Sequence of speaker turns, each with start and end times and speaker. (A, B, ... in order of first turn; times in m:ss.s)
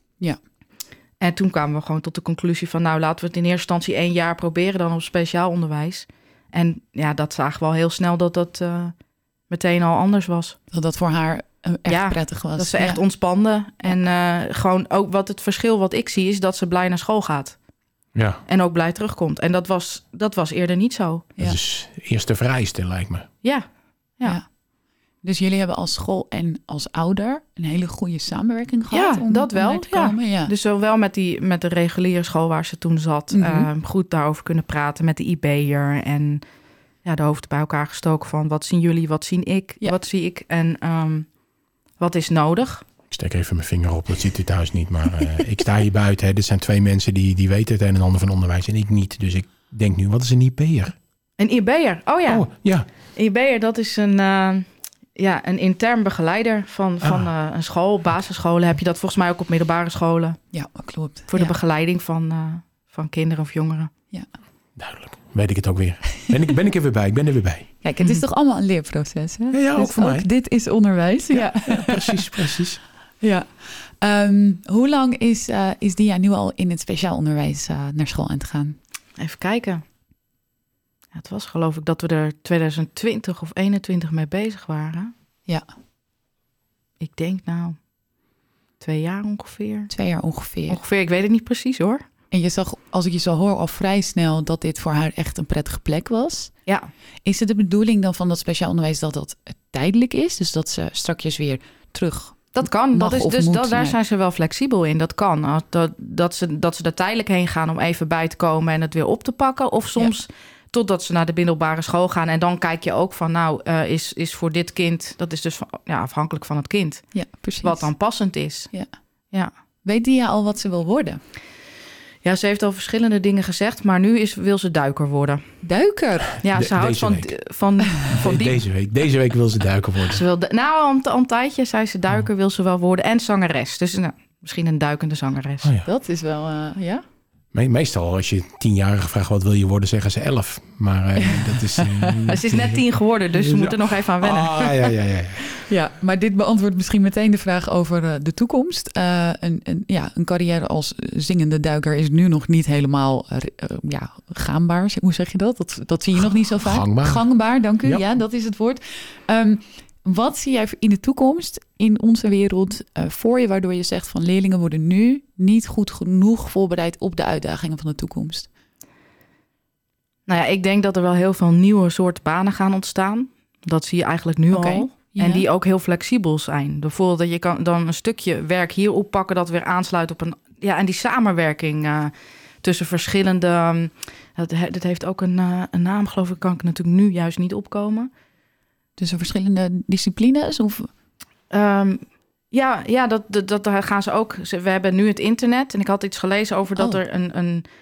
0:01.2-0:09.0 A
0:09.5-0:10.6 A
0:10.7-0:13.0 B
0:11.9-0:17.6 A
0:18.2-0:18.4 C
0:18.5-0:21.3 A
0:21.4-0:23.3 C
0:23.4-0:24.4 A
0:25.2-0:30.5 B
0:28.9-0:36.4 A
0:33.3-0:33.7 B
0:37.0-0:41.4 A
0:42.0-0:42.8 A
0:43.1-0:51.0 C
0:51.4-1:00.4 A
0:52.3-0:52.9 C
0:57.0-0:57.3 C
1:00.5-1:01.6 B
1:01.3-1:03.9 A
1:04.8-1:08.2 C
1:07.8-1:12.4 B
1:09.5-1:10.3 C
1:11.3-1:12.8 C
1:13.2-1:18.8 B
1:19.2-1:19.8 A
1:21.1-1:25.1 A
1:27.0-1:27.8 A
1:28.8-1:29.9 A
1:29.9-1:30.8 B
1:30.7-1:32.1 A
1:32.3-1:36.5 B
1:37.2-1:44.0 B
1:42.6-1:58.7 A
1:57.1-1:57.9 B
1:59.8-2:01.2 B
2:02.2-2:05.4 A
2:05.6-2:06.3 B
2:06.4-2:08.6 A
2:06.5-2:07.3 C
2:08.0-2:10.2 C
2:10.1-2:15.7 A
2:15.6-2:15.9 C
2:15.8-2:17.0 B
2:17.5-2:22.8 C
2:21.2-2:22.2 B
2:22.3-2:24.8 A
2:23.4-2:25.5 C
2:25.7-2:48.5 B
2:36.5-2:37.2 C
2:50.3-3:08.1 A
2:54.5-2:55.5 B
3:09.0-3:10.9 B
3:11.5-3:17.7 A